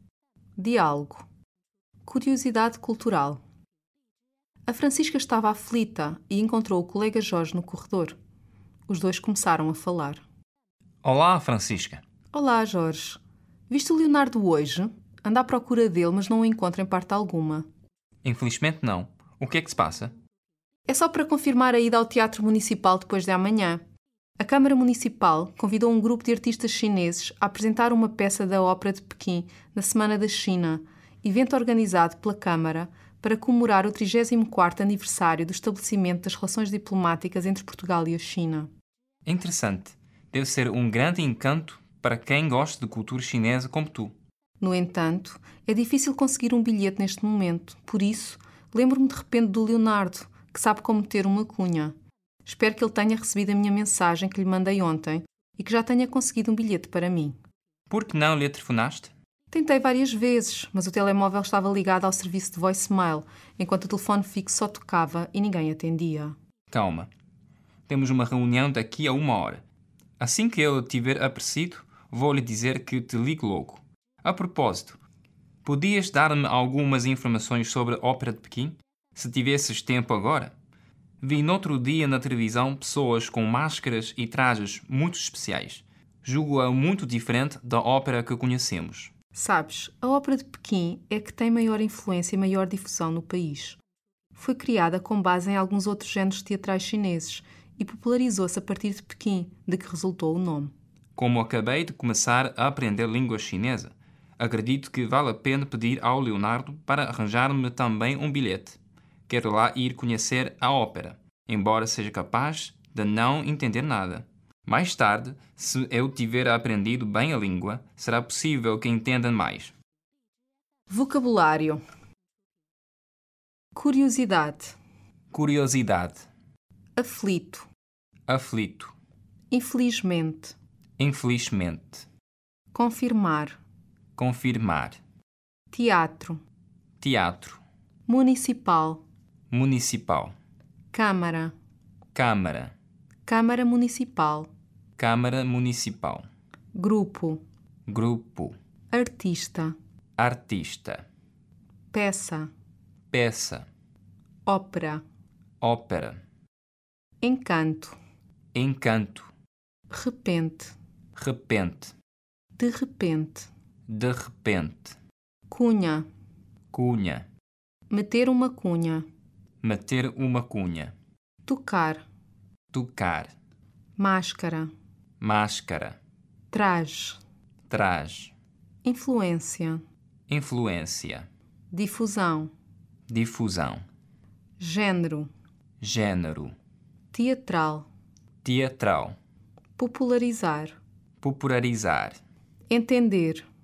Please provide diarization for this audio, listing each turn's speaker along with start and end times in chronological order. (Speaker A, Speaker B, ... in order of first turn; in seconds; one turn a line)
Speaker A: 0.6-1.2
Speaker A: 2.0-3.4
Speaker A: 4.7-8.2
Speaker A: 8.9-10.2
Speaker B: 11.0-12.0
Speaker A: 12.3-17.6
Speaker B: 18.2-20.1
Speaker A: 20.9-23.8
Speaker A: 24.4-38.7
Speaker B: 39.2-44.1
Speaker A: 44.6-51.9
Speaker A: 52.4-57.3
Speaker B: 57.9-59.1
Speaker A: 59.5-66.3
Speaker B: 66.7-67.1
Speaker B: 67.9-69.6
Speaker B: 70.2-75.0
Speaker B: 75.6-80.5
Speaker B: 81.2-89.1
Speaker A: 89.3-93.8
Speaker A: 94.3-100.7
Speaker B: 101.2-119.7
Speaker A: 120.9-121.8
Speaker A: 123.7-124.8
Speaker B: 125.3-126.2
Speaker A: 127.0-127.7
Speaker B: 128.3-128.9
Speaker A: 129.5-130.6
Speaker B: 131.0-132.1
Speaker A: 132.7-133.6
Speaker B: 134.2-135.0
Speaker A: 135.7-136.4
Speaker B: 137.0-137.6
Speaker A: 138.1-139.0
Speaker B: 139.5-140.3
Speaker A: 140.9-141.5
Speaker B: 142.1-142.7
Speaker A: 143.2-144.5
Speaker B: 145.0-146.2
Speaker A: 146.7-147.4
Speaker B: 147.9-148.5
Speaker A: 148.9-149.7
Speaker B: 150.2-151.0
Speaker A: 151.9-152.5
Speaker B: 153.1-153.7
Speaker A: 154.4-155.0
Speaker B: 155.6-156.2
Speaker A: 157.2-158.0
Speaker B: 158.5-159.3
Speaker A: 159.9-160.7
Speaker B: 161.2-161.9
Speaker A: 162.6-163.5
Speaker B: 163.9-164.9
Speaker A: 165.5-166.0
Speaker B: 166.7-167.2
Speaker A: 167.9-169.0
Speaker B: 169.6-170.9
Speaker A: 171.4-172.0
Speaker B: 172.7-173.3
Speaker A: 174.0-174.7
Speaker B: 175.2-176.0
Speaker A: 176.5-177.2
Speaker B: 177.7-178.3
Speaker A: 178.8-179.8
Speaker B: 180.3-181.3
Speaker A: 181.7-182.5
Speaker B: 183.1-183.8
Speaker A: 184.6-185.3
Speaker B: 185.8-186.5
Speaker A: 187.1-187.9
Speaker B: 188.4-189.2
Speaker A: 189.8-190.8
Speaker B: 191.2-192.2
Speaker A: 192.7-193.5